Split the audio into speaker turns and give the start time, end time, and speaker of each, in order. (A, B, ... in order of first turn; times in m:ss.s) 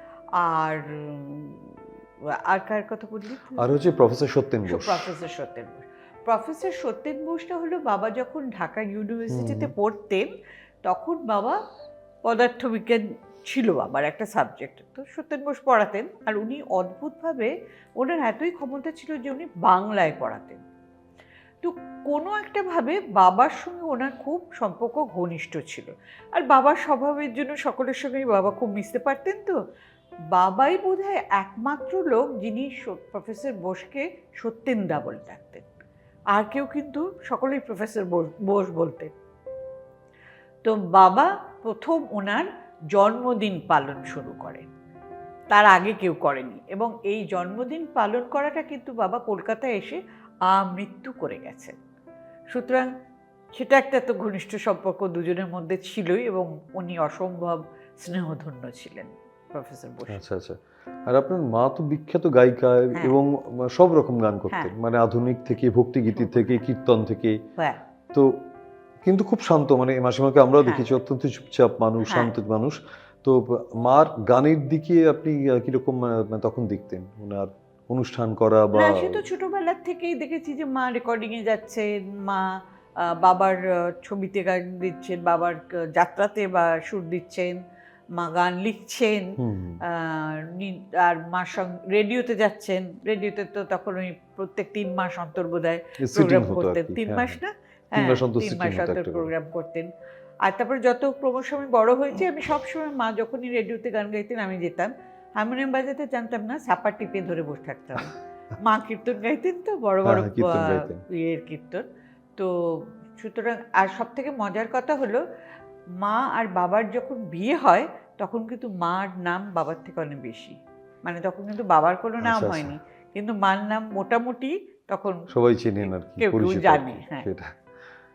0:00.3-0:03.8 A
0:03.6-0:05.1 B
0:04.7-0:10.3 A
0:09.3-0:09.7 B
0:10.8-0:11.6 A
0:12.2-0:20.6 A
0:21.6-0:29.6 A
0:30.3-0:35.7 A
0:36.3-0:39.1 A
0:40.6-0:44.7 A
0:45.5-0:51.8 A
0:52.5-0:52.9 A
0:53.5-1:00.2 A
1:00.1-1:07.4 B
1:06.2-1:06.6 A
1:08.1-1:08.4 B
1:09.0-1:19.2 B
1:10.6-1:10.9 A
1:12.1-1:12.3 A
1:18.7-1:27.6 A
1:28.2-1:39.9 A
1:29.4-1:29.8 B
1:36.0-1:37.4 B
1:37.9-1:39.3 B
1:40.4-1:51.8 A
1:50.0-1:51.0 B
1:52.4-1:55.2 A
1:56.0-2:05.3 A
2:02.2-2:02.7 B
2:05.3-2:07.6 B
2:05.8-2:07.3 A